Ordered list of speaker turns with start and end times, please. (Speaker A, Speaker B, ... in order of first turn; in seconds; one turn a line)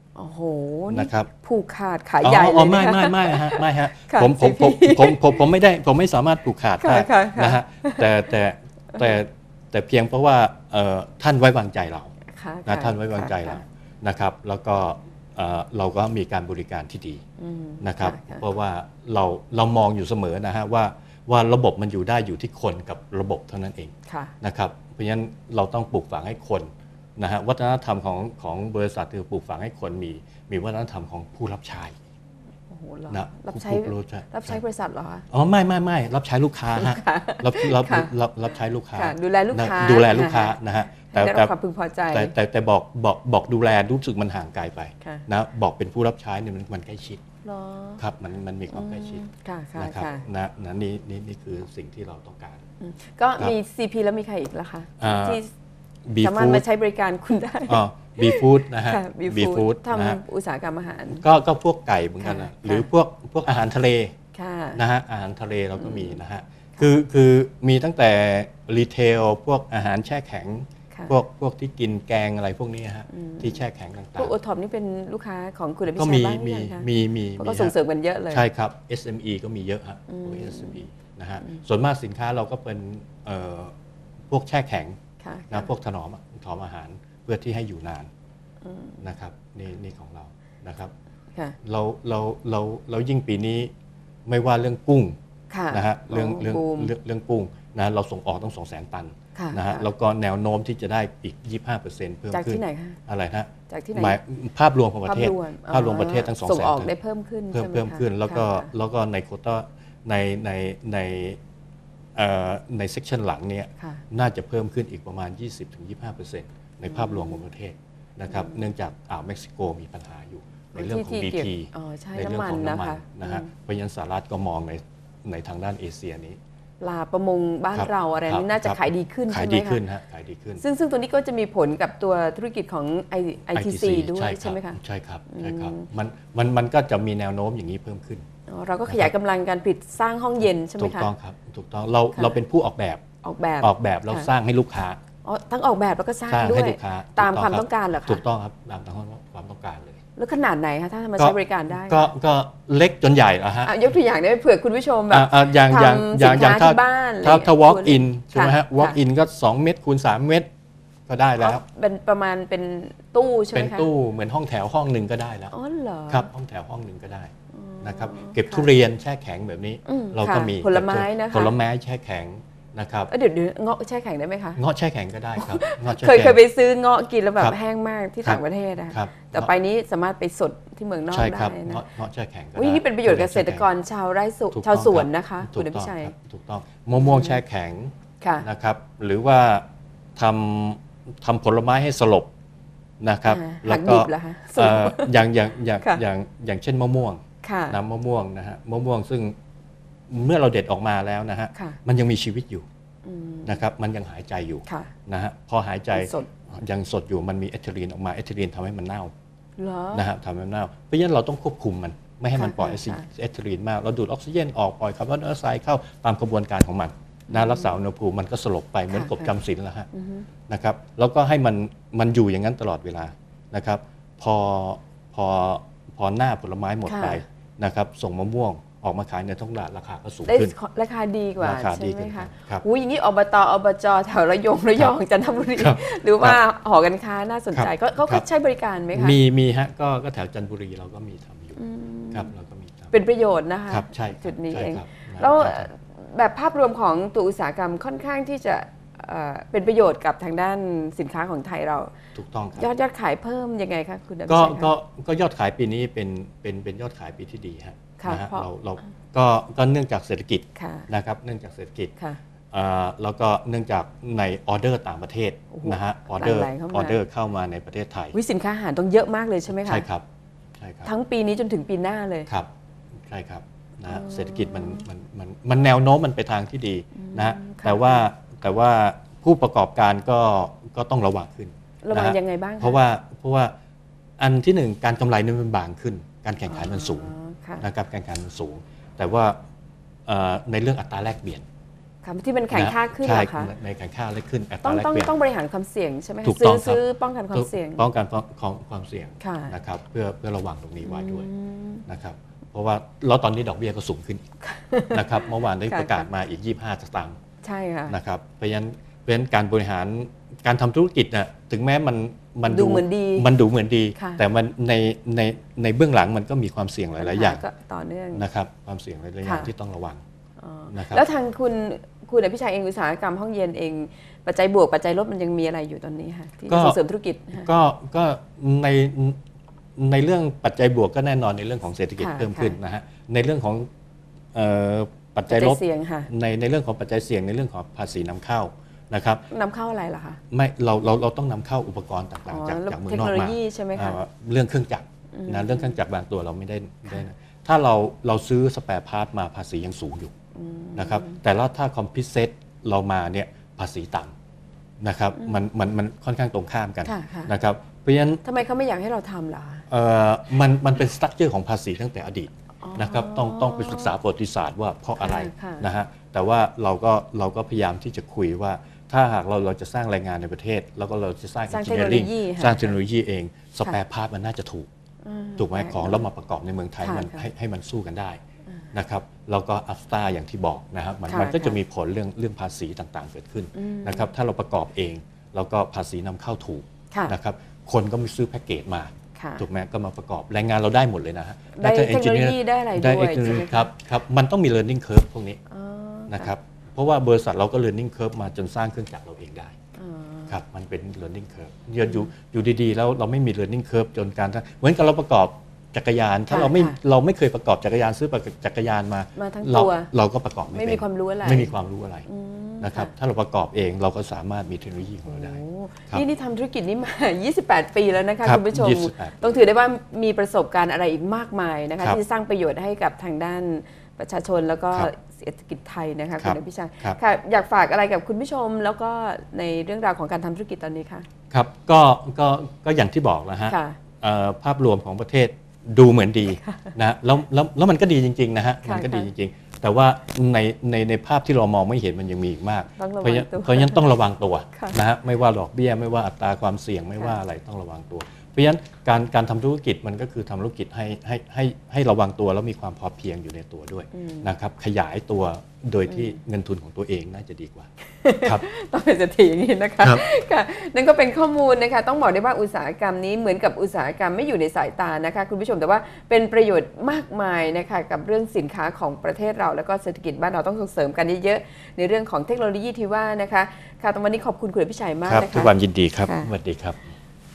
Speaker A: 0.2-5.4
Speaker B: 0.9-1.3
Speaker B: 2.2-12.1
Speaker A: 6.8-8.1
Speaker A: 12.3-13.6
Speaker B: 12.7-17.2
Speaker A: 17.4-18.4
Speaker B: 17.8-31.9
Speaker A: 24.1-24.3
Speaker A: 32.7-35.2
Speaker B: 33.1-34.6
Speaker B: 35.3-41.5
Speaker A: 36.7-40.5
Speaker A: 41.1-42.3
Speaker B: 42.1-47.2
Speaker A: 47.5-48.0
Speaker B: 48.0-49.2
Speaker A: 48.7-50.3
Speaker B: 49.8-52.6
Speaker A: 52.8-55.5
Speaker B: 55.0-55.4
Speaker B: 56.0-56.6
Speaker A: 56.2-61.2
Speaker B: 57.7-60.2
Speaker B: 61.1-64.1
Speaker A: 62.2-62.9
Speaker A: 64.3-64.8
Speaker B: 64.8-74.3
Speaker A: 65.8-66.2
Speaker A: 73.1-73.6
Speaker A: 74.2-78.4
Speaker B: 75.9-77.8
Speaker B: 78.3-83.7
Speaker A: 80.1-80.8
Speaker B: 84.3-85.0
Speaker A: 85.2-85.7
Speaker B: 85.5-88.1
Speaker A: 88.6-89.0
Speaker B: 89.0-90.9
Speaker B: 91.6-93.7
Speaker B: 94.2-95.2
Speaker A: 95.5-96.9
Speaker B: 95.7-106.9
Speaker A: 99.3-99.9
Speaker A: 102.3-103.0
Speaker A: 103.7-104.2
Speaker A: 105.0-108.7
Speaker B: 107.5-111.4
Speaker B: 112.2-126.4
Speaker A: 113.8-114.0
Speaker A: 116.9-117.4
Speaker A: 118.3-118.6
Speaker A: 120.7-123.5
Speaker A: 126.8-129.8
Speaker B: 127.7-130.6
Speaker A: 130.6-135.9
Speaker B: 133.5-138.2
Speaker A: 138.5-141.1
Speaker B: 138.9-139.1
Speaker B: 140.4-143.0
Speaker A: 143.2-144.3
Speaker B: 143.6-145.0
Speaker A: 145.2-148.2
Speaker B: 146.3-150.0
Speaker A: 150.2-152.1
Speaker B: 151.2-153.8
Speaker A: 153.7-159.0
Speaker B: 155.1-160.5
Speaker B: 161.1-161.6
Speaker A: 161.4-163.9
Speaker B: 163.5-165.5
Speaker A: 165.5-166.3
Speaker B: 166.1-167.3
Speaker A: 167.5-168.7
Speaker B: 167.8-173.1
Speaker A: 169.8-171.5
Speaker A: 173.1-174.6
Speaker B: 174.6-176.4
Speaker A: 175.4-181.8
Speaker B: 178.2-179.5
Speaker B: 181.1-183.7
Speaker A: 182.6-186.1
Speaker B: 184.5-189.6
Speaker A: 186.9-187.4
Speaker A: 188.2-188.4
Speaker B: 190.2-192.3
Speaker B: 193.0-199.3
Speaker A: 193.2-195.1
Speaker A: 197.4-197.8
Speaker B: 200.1-202.7
Speaker A: 203.0-203.6
Speaker B: 203.4-209.1
Speaker A: 204.7-204.9
Speaker A: 205.9-206.3
Speaker A: 209.6-210.1
Speaker B: 209.9-219.9
Speaker A: 212.3-213.1
Speaker A: 217.3-217.8
Speaker A: 218.9-219.3
Speaker A: 219.9-220.3
Speaker B: 220.5-230.5
Speaker A: 226.8-227.2
Speaker A: 230.3-239.2
Speaker B: 231.4-232.6
Speaker B: 235.5-236.4
Speaker B: 237.5-238.2
Speaker B: 238.9-241.6
Speaker A: 241.6-242.3
Speaker B: 242.1-242.9
Speaker A: 242.9-251.9
Speaker B: 243.7-245.7
Speaker B: 252.1-252.7
Speaker A: 252.6-254.7
Speaker B: 254.3-261.9
Speaker A: 258.0-258.5
Speaker A: 260.6-260.9
Speaker B: 262.5-268.1
Speaker A: 265.5-267.0
Speaker A: 268.1-269.9
Speaker B: 269.5-270.0
Speaker B: 270.6-270.9
Speaker A: 270.8-272.3
Speaker B: 273.1-283.5
Speaker A: 273.9-274.9
Speaker A: 276.9-278.1
Speaker A: 281.8-282.8
Speaker B: 284.2-289.4
Speaker A: 286.5-287.6
Speaker B: 290.1-291.4
Speaker A: 292.0-293.5
Speaker B: 292.5-295.1
Speaker A: 294.6-297.8
Speaker B: 296.2-296.8
Speaker B: 297.3-301.3
Speaker A: 299.2-299.5
Speaker A: 300.8-301.8
Speaker B: 301.9-304.2
Speaker A: 304.4-306.1
Speaker B: 304.9-307.2
Speaker A: 307.4-307.9
Speaker B: 307.9-317.4
Speaker A: 312.5-313.3
Speaker A: 313.9-314.2
Speaker A: 317.0-318.2
Speaker B: 318.1-320.0
Speaker A: 319.2-319.5
Speaker A: 320.4-327.5
Speaker B: 320.7-321.1
Speaker B: 326.5-326.8
Speaker B: 327.3-329.2
Speaker B: 329.8-333.7
Speaker A: 332.0-332.6
Speaker B: 334.3-339.2
Speaker A: 335.3-336.1
Speaker A: 339.3-340.2
Speaker B: 340.3-350.1
Speaker A: 342.3-344.0
Speaker A: 345.1-345.8
Speaker A: 350.3-351.2
Speaker B: 350.8-354.1
Speaker B: 354.8-358.2
Speaker A: 355.1-355.4
Speaker A: 356.8-357.3
Speaker A: 358.2-359.6
Speaker B: 359.7-374.7
Speaker A: 362.6-363.9
Speaker A: 365.0-365.7
Speaker A: 371.5-372.8
Speaker A: 375.0-376.1
Speaker B: 375.4-378.2
Speaker A: 376.8-377.3
Speaker B: 378.7-395.4
Speaker A: 381.1-381.6
Speaker A: 383.6-384.1
Speaker A: 389.1-389.4
Speaker A: 391.5-393.7
Speaker A: 395.5-396.3
Speaker B: 396.1-399.6
Speaker A: 399.8-400.4
Speaker B: 400.3-412.1
Speaker A: 401.8-402.1
Speaker A: 406.3-406.8
Speaker A: 409.1-409.9
Speaker A: 410.5-411.5
Speaker A: 412.1-412.9
Speaker B: 412.6-416.1
Speaker A: 415.1-431.1
Speaker B: 418.2-419.3
Speaker B: 426.2-427.0
Speaker B: 431.3-457.7
Speaker A: 433.5-433.8
Speaker A: 436.3-436.7
Speaker A: 438.6-439.1
Speaker A: 442.8-443.9
Speaker A: 453.9-454.3
Speaker A: 455.9-456.1
Speaker A: 458.0-475.5
Speaker B: 475.1-476.9
Speaker A: 476.0-476.3